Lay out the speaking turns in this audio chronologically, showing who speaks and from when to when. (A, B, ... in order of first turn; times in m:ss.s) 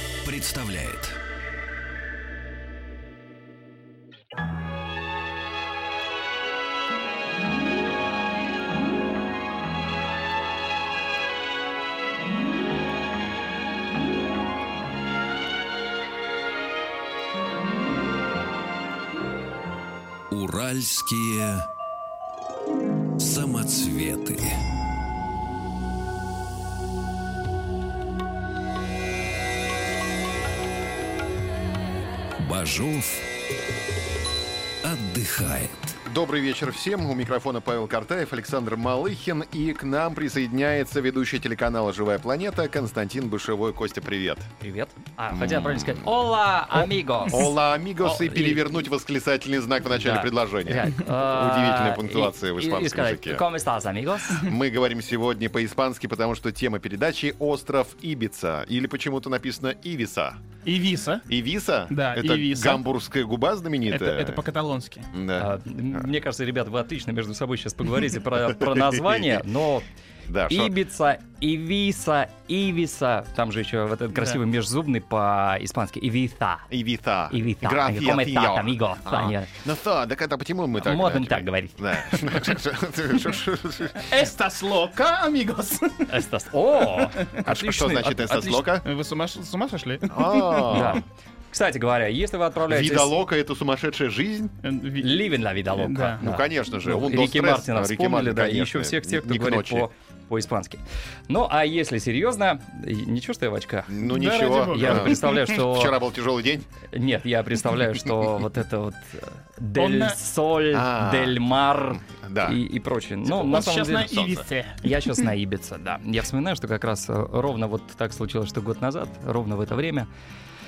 0:00.2-0:01.2 A
0:20.3-0:21.7 A
0:23.2-0:24.6 A
0:32.4-0:33.3 A
0:34.8-0:36.0 A
0:36.1-0:44.5 B
0:44.6-0:47.5 C
0:45.3-0:46.1 B
0:47.3-0:53.4 B
0:48.0-0:48.6 C
0:50.0-0:54.5 C
0:54.3-1:00.4 B
1:00.6-1:01.3 D
1:01.3-1:04.4 B
1:01.9-1:02.8 D
1:03.9-1:05.1 D
1:05.1-1:06.1 B
1:05.4-1:09.9 C
1:08.5-1:09.4 B
1:10.3-1:10.7 B
1:10.5-1:16.7 C
1:14.1-1:14.4 D
1:16.7-1:24.1 B
1:17.3-1:19.5 C
1:20.8-1:22.4 C
1:24.0-1:26.2 D
1:26.1-1:28.7 C
1:26.9-1:27.4 D
1:27.4-1:28.9 B
1:28.8-1:31.0 D
1:30.1-1:31.0 B
1:30.7-1:33.1 C
1:32.7-1:34.5 B
1:34.6-1:36.2 D
1:35.0-1:44.0 C
1:36.2-1:39.9 B
1:43.9-1:46.7 B
1:44.0-1:45.5 D
1:44.7-1:46.0 C
1:46.9-2:00.1 C
1:49.8-1:50.2 D
1:50.7-1:51.4 B
1:52.0-1:52.6 B
1:53.3-1:55.2 D